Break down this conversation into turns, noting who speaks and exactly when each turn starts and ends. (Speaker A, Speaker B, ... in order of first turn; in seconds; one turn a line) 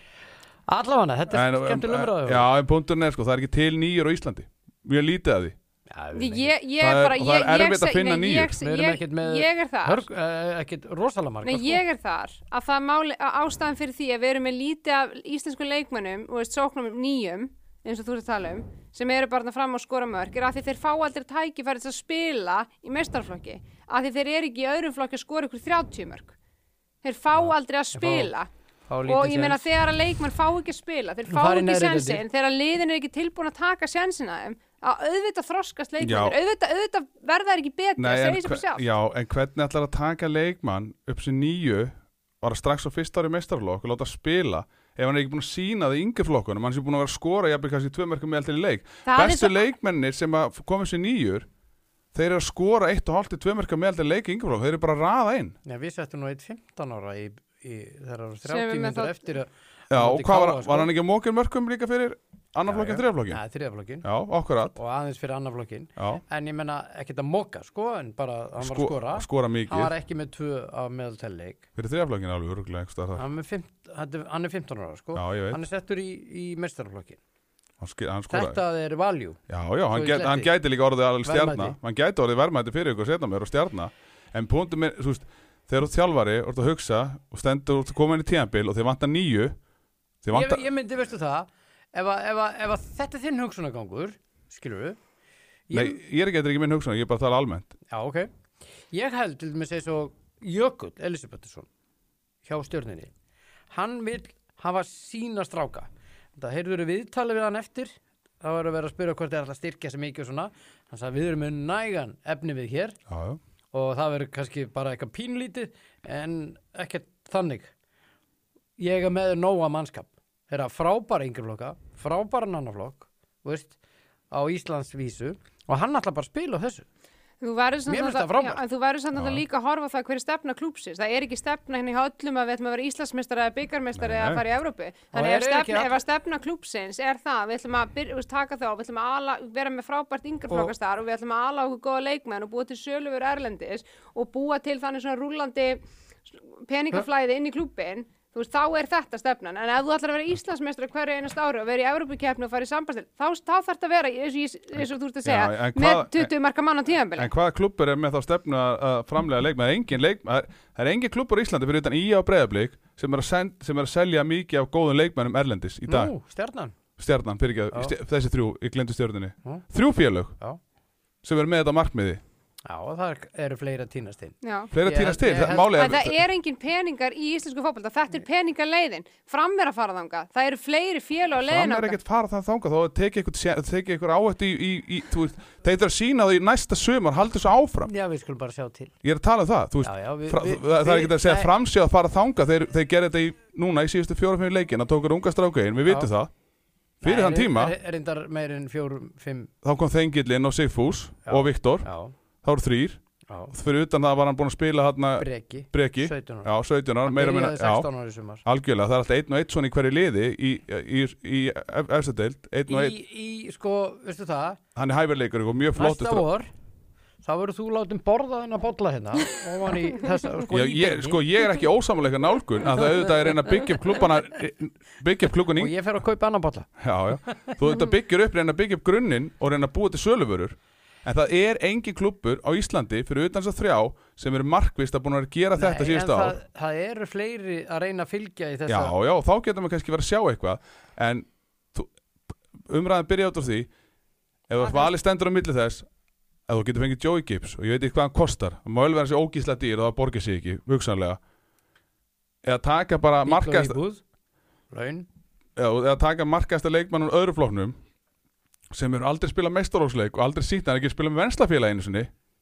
Speaker A: 0.7-2.5
Speaker B: 1.3-5.5
Speaker A: 5.9-6.5
Speaker C: 6.1-10.1
Speaker B: 6.8-8.6
Speaker A: 8.6-11.8
Speaker C: 11.4-26.3
Speaker C: 27.0-28.5
Speaker A: 27.4-28.3
Speaker A: 28.9-29.7
Speaker C: 29.1-38.9
Speaker A: 31.3-32.2
Speaker B: 36.0-36.4
Speaker B: 38.0-51.5
Speaker C: 49.0-49.6
Speaker B: 52.1-55.5
Speaker A: 55.6-60.9
Speaker C: 58.4-59.3
Speaker B: 59.9-63.4
Speaker A: 62.7-64.0
Speaker B: 64.0-64.8
Speaker A: 64.7-71.6
Speaker B: 66.0-66.2
Speaker B: 68.6-69.9
Speaker B: 71.8-73.2
Speaker A: 73.2-77.2
Speaker B: 75.1-75.6
Speaker B: 77.8-78.6
Speaker A: 78.3-79.4
Speaker B: 79.5-89.5
Speaker A: 79.9-80.5
Speaker A: 81.2-81.8
Speaker B: 90.2-90.7
Speaker A: 90.3-95.0
Speaker A: 95.7-96.0
Speaker B: 95.7-97.7
Speaker A: 97.9-98.3
Speaker A: 98.9-101.7
Speaker A: 102.4-103.1
Speaker A: 103.7-113.0
Speaker B: 113.1-113.4
Speaker A: 113.7-117.7
Speaker A: 118.8-123.8
Speaker A: 124.3-126.8
Speaker C: 127.4-157.3
Speaker A: 127.9-128.6
Speaker B: 129.1-129.4
Speaker B: 133.9-134.4
Speaker A: 135.1-135.9
Speaker B: 154.8-156.3
Speaker B: 157.1-166.1
Speaker A: 165.9-166.7
Speaker B: 167.0-170.4
Speaker B: 171.2-172.2
Speaker A: 172.6-175.9
Speaker C: 174.4-174.7
Speaker B: 174.7-176.2
Speaker C: 175.7-182.0
Speaker B: 181.5-187.9
Speaker A: 187.8-188.9
Speaker B: 189.0-196.3
Speaker A: 189.8-191.5
Speaker A: 197.0-199.5
Speaker B: 197.0-197.7
Speaker B: 199.6-201.9
Speaker A: 201.2-202.1
Speaker B: 202.4-203.0
Speaker A: 203.3-203.5
Speaker B: 203.5-207.9
Speaker A: 205.2-206.5
Speaker A: 207.0-208.4
Speaker B: 208.4-213.0
Speaker A: 212.7-214.6
Speaker B: 214.8-216.3
Speaker A: 215.7-216.5
Speaker A: 217.2-221.2
Speaker B: 220.5-225.7
Speaker A: 225.6-226.7
Speaker B: 226.8-236.3
Speaker A: 227.2-227.5
Speaker A: 235.6-238.9
Speaker B: 238.7-241.9
Speaker B: 242.7-243.7
Speaker B: 244.5-245.9
Speaker C: 244.6-244.9
Speaker B: 246.5-251.2
Speaker B: 252.4-253.8
Speaker A: 253.2-254.0
Speaker A: 254.7-255.1
Speaker B: 255.6-257.8
Speaker B: 258.7-262.1